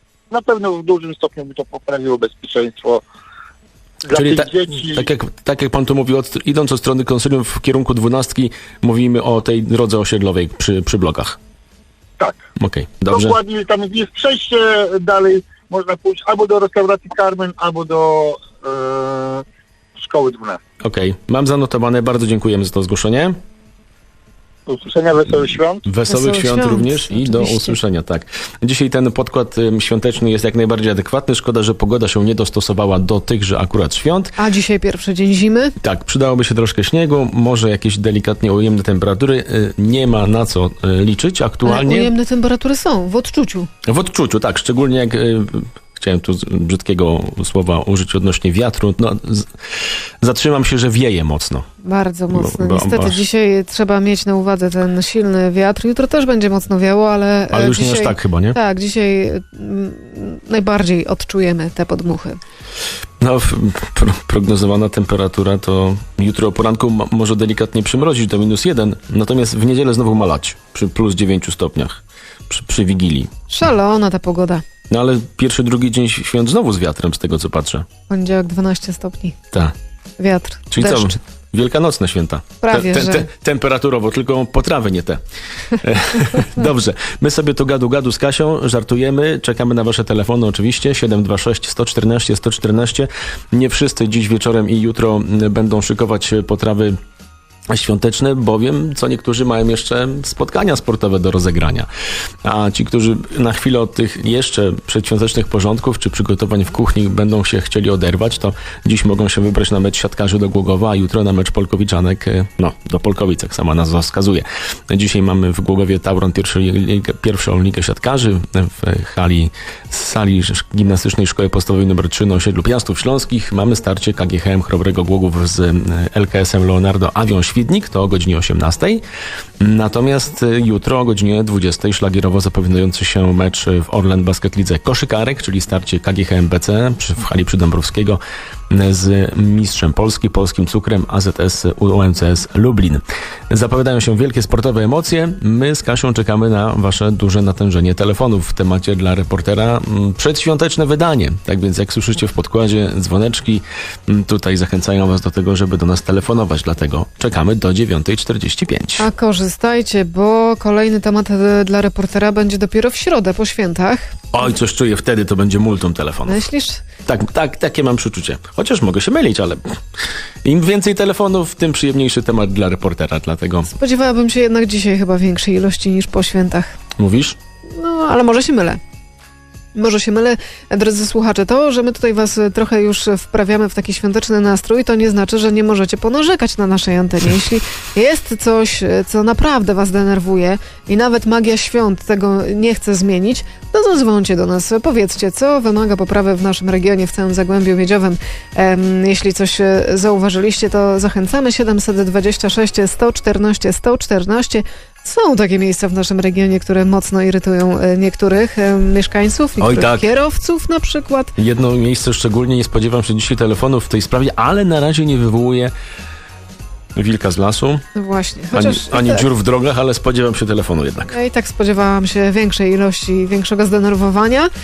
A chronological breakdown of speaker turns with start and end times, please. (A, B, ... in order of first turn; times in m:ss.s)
0:00.3-0:03.0 A
0:04.0-0:05.1 A
0:04.1-0:11.4 B
0:12.2-0:12.4 A
0:12.6-0:13.4 B
0:13.1-0:19.4 A
0:20.0-0:20.6 A
0:20.8-0:23.4 B
0:24.7-0:25.8 A
0:25.8-0:34.3 B
0:26.1-0:27.8 C
0:34.4-0:35.8 C
0:35.8-0:42.1 B
0:41.6-0:43.7 C
0:43.8-0:51.7 B
0:51.8-1:02.4 C
0:52.3-0:53.2 B
0:57.5-0:58.6 B
1:03.2-1:13.3 B
1:13.5-1:14.6 C
1:14.9-1:17.9 B
1:18.1-1:19.4 C
1:20.2-1:21.2 C
1:20.7-1:37.0 B
1:22.6-1:23.3 C
1:37.7-1:41.9 B
1:42.4-2:09.0 B
2:09.6-2:39.1 B
2:39.0-2:44.2 C
2:44.3-2:46.5 B
2:46.3-2:46.8 C
2:47.1-2:49.8 B
2:50.4-2:53.7 B
2:53.8-2:56.7 C
2:57.0-2:57.4 B
2:57.7-2:58.8 C
2:59.8-3:31.3 C
3:29.6-3:30.1 B
3:31.4-3:35.7 B
3:37.0-3:37.8 B
3:38.0-3:39.3 C
3:38.5-3:41.1 B
3:41.1-3:44.5 C